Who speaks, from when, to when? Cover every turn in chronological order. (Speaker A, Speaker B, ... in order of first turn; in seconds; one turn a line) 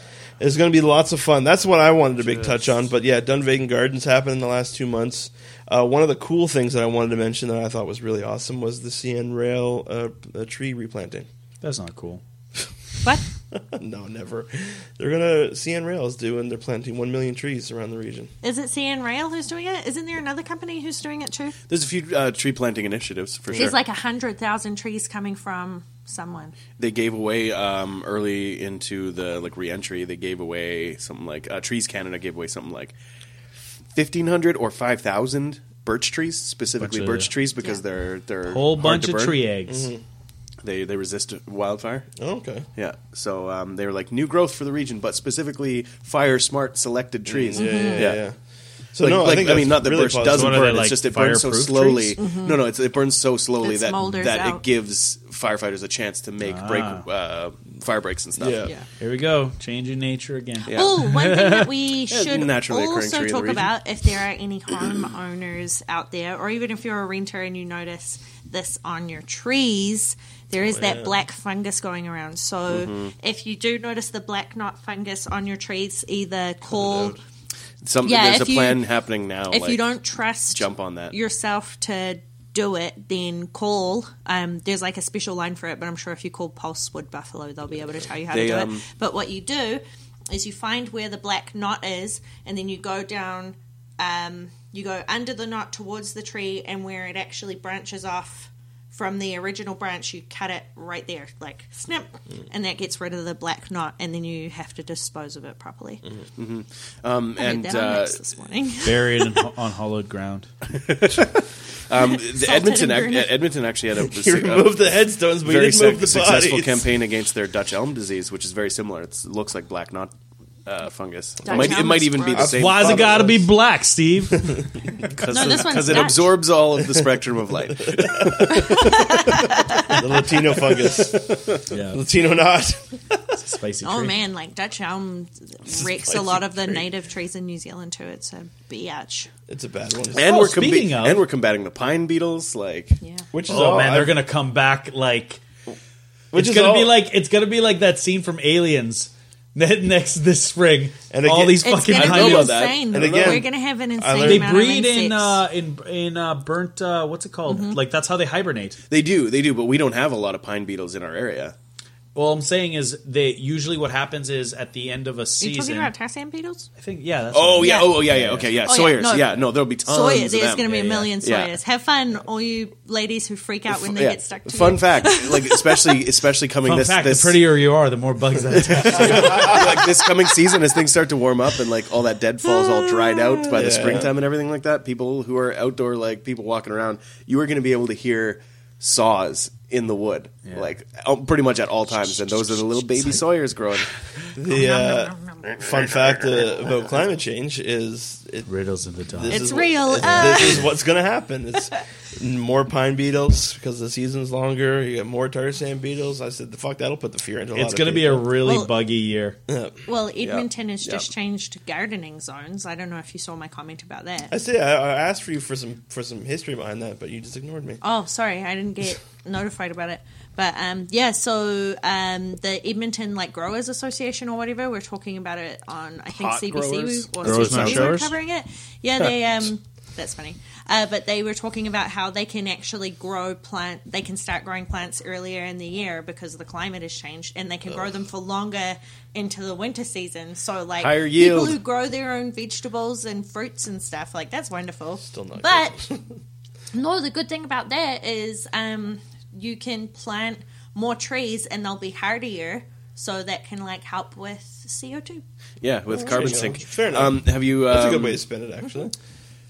Speaker A: 0.4-11.3
Speaker B: 2.3-2.5
Speaker C: 11.6-12.2
Speaker A: 13.5-18.3
Speaker D: 18.4-21.6
Speaker B: 21.7-23.8
Speaker D: 23.5-26.6
Speaker B: 26.8-32.9
Speaker B: 34.0-39.4
Speaker C: 36.8-37.3
Speaker C: 38.5-39.9
Speaker A: 39.7-40.0
Speaker B: 40.6-42.1
Speaker A: 42.2-42.7
Speaker B: 42.8-48.2
Speaker A: 47.3-48.4
Speaker D: 47.5-48.1
Speaker A: 48.9-50.8
Speaker B: 49.0-58.6
Speaker C: 50.3-52.2
Speaker D: 52.2-52.6
Speaker D: 53.6-54.6
Speaker C: 56.4-57.1
Speaker A: 58.4-58.7
Speaker C: 59.0-61.7
Speaker B: 60.7-61.0
Speaker D: 60.7-77.2
Speaker B: 62.1-63.7
Speaker A: 70.7-71.2
Speaker B: 72.7-73.1
Speaker A: 76.7-77.2
Speaker B: 77.8-79.8
Speaker D: 78.0-78.8
Speaker D: 79.5-106.0
Speaker B: 80.5-81.1
Speaker B: 88.3-88.8
Speaker B: 106.4-108.2
Speaker D: 107.4-109.3
Speaker C: 108.8-110.5
Speaker B: 110.7-120.1
Speaker D: 112.0-113.4
Speaker A: 114.0-116.9
Speaker B: 120.7-123.4
Speaker D: 121.4-122.5
Speaker A: 121.5-121.8
Speaker A: 122.3-123.5
Speaker C: 122.4-124.7
Speaker B: 125.0-129.9
Speaker D: 125.3-126.3
Speaker D: 128.4-130.0
Speaker A: 129.9-133.4
Speaker B: 130.7-131.7
Speaker C: 131.7-132.0
Speaker C: 133.4-134.2
Speaker D: 133.8-139.3
Speaker A: 135.7-136.8
Speaker A: 139.5-140.3
Speaker B: 140.1-143.0
Speaker C: 140.2-141.2
Speaker A: 143.3-144.2
Speaker C: 143.5-145.4
Speaker A: 146.3-147.0
Speaker C: 146.3-152.6
Speaker A: 151.1-151.7
Speaker D: 151.6-155.4
Speaker B: 151.9-153.4
Speaker A: 152.9-154.6
Speaker C: 154.2-158.8
Speaker D: 157.5-157.8
Speaker B: 158.9-161.6
Speaker C: 162.2-165.9
Speaker D: 165.4-166.7
Speaker C: 166.8-168.6
Speaker B: 167.3-171.6
Speaker D: 167.6-168.0
Speaker D: 168.7-176.0
Speaker B: 173.7-177.4
Speaker C: 176.7-179.7
Speaker B: 178.6-193.9
Speaker A: 179.1-179.4
Speaker D: 179.4-180.3
Speaker D: 182.4-183.6
Speaker A: 183.5-184.1
Speaker D: 192.1-193.0
Speaker A: 194.3-198.5
Speaker D: 194.4-195.6
Speaker C: 198.4-199.5
Speaker A: 199.1-208.3
Speaker D: 199.3-200.7
Speaker C: 207.6-209.4
Speaker D: 208.4-208.7
Speaker A: 209.5-209.8
Speaker D: 209.9-214.3
Speaker B: 210.2-211.1
Speaker A: 214.3-217.8
Speaker D: 217.8-245.8
Speaker B: 226.1-228.1
Speaker C: 227.2-228.1
Speaker B: 240.8-241.6
Speaker A: 245.1-246.0
Speaker D: 246.7-255.2
Speaker B: 255.6-258.2
Speaker A: 255.9-258.9